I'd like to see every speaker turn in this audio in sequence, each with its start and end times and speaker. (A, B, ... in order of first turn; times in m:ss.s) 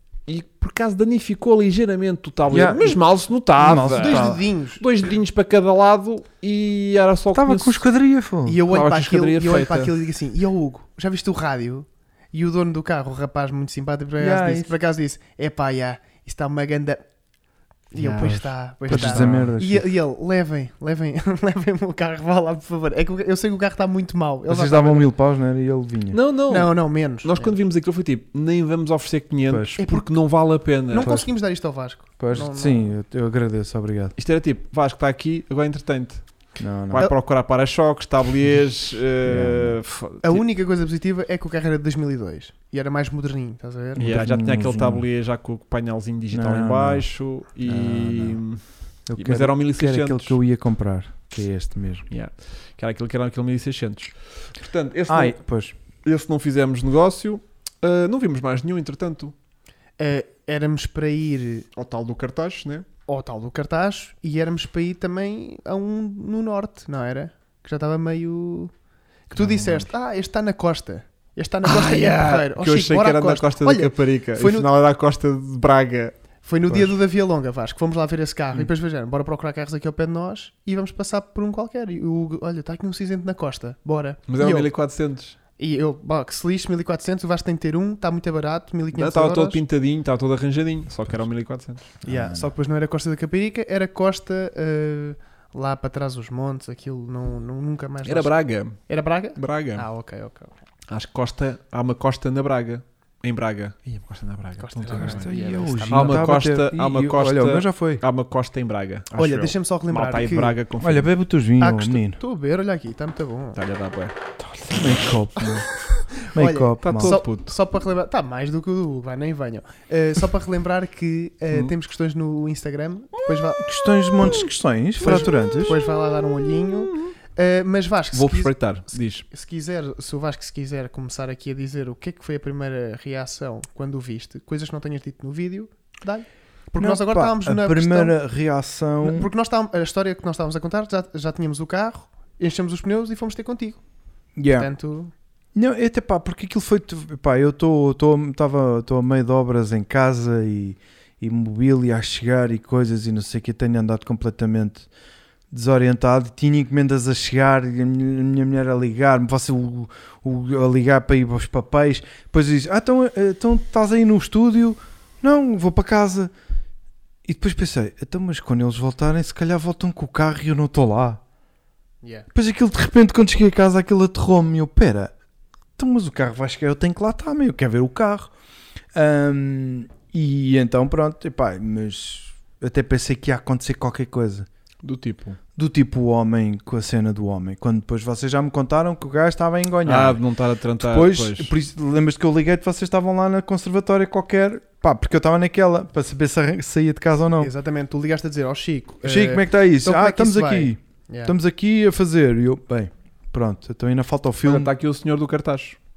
0:00.3-0:07.8 A
0:02.5-0:03.0 B
0:03.6-0:04.4 B
0:03.9-0:04.8 C
0:07.3-0:08.6 B
0:08.4-0:17.0 C
0:08.6-0:09.9 A
0:14.2-0:14.7 B
0:17.9-0:25.1 C
0:18.0-0:19.9 B
0:18.9-0:19.5 A
0:24.5-0:26.2 B
0:26.1-0:31.1 A
0:26.5-0:27.6 C
0:29.5-0:29.7 B
0:29.8-0:32.9 C
0:31.0-0:31.3 B
0:32.2-0:34.1 B
0:34.2-0:36.3 A
0:36.6-0:37.1 B
0:36.9-0:40.4 A
0:39.2-0:39.8 B
0:40.2-0:44.1 C
0:44.0-0:45.0 B
0:44.0-0:50.4 A
0:46.3-0:47.1 B
0:47.6-0:48.4 B
0:49.1-0:52.1 B
0:52.1-0:55.4 A
0:55.1-0:55.7 B
0:56.0-0:59.3 A
1:00.0-1:01.7 C
1:01.7-1:02.8 A
1:03.1-1:08.7 C
1:09.3-1:14.7 C
1:09.3-1:09.9 A
1:11.6-1:16.2 A
1:16.4-1:24.7 C
1:24.3-1:25.4 A
1:25.6-1:29.6 C
1:28.9-1:31.9 A
1:32.0-1:32.5 B
1:32.0-1:40.5 C
1:38.0-1:38.8 A
1:39.4-1:39.8 A
1:40.9-1:51.1 A
1:44.6-1:46.2 C
1:45.0-1:48.0 B
1:49.1-1:50.6 C
1:50.8-1:52.2 B
1:51.6-1:53.6 C
1:53.5-1:54.1 A
1:54.6-1:55.7 B
1:55.4-2:03.7 C
1:56.3-1:57.2 B
1:56.8-1:57.5 A
2:03.6-2:05.8 B
2:05.0-2:18.2 C
2:06.5-2:07.1 A
2:08.1-2:09.2 A
2:16.7-2:19.3 B
2:19.0-2:23.8 C
2:24.4-2:24.7 B
2:24.5-2:25.1 C
2:25.5-2:34.9 B
2:35.5-2:46.3 B
2:47.2-2:51.2 B
2:52.0-2:52.3 C
2:52.3-2:55.1 B
2:55.8-2:58.3 B
2:58.9-3:04.5 B
3:04.8-3:05.4 A
3:05.5-3:10.2 B
3:09.8-3:11.5 A
3:10.8-3:17.5 B
3:17.4-3:21.3 C
3:19.0-3:24.7 B
3:24.4-3:25.8 A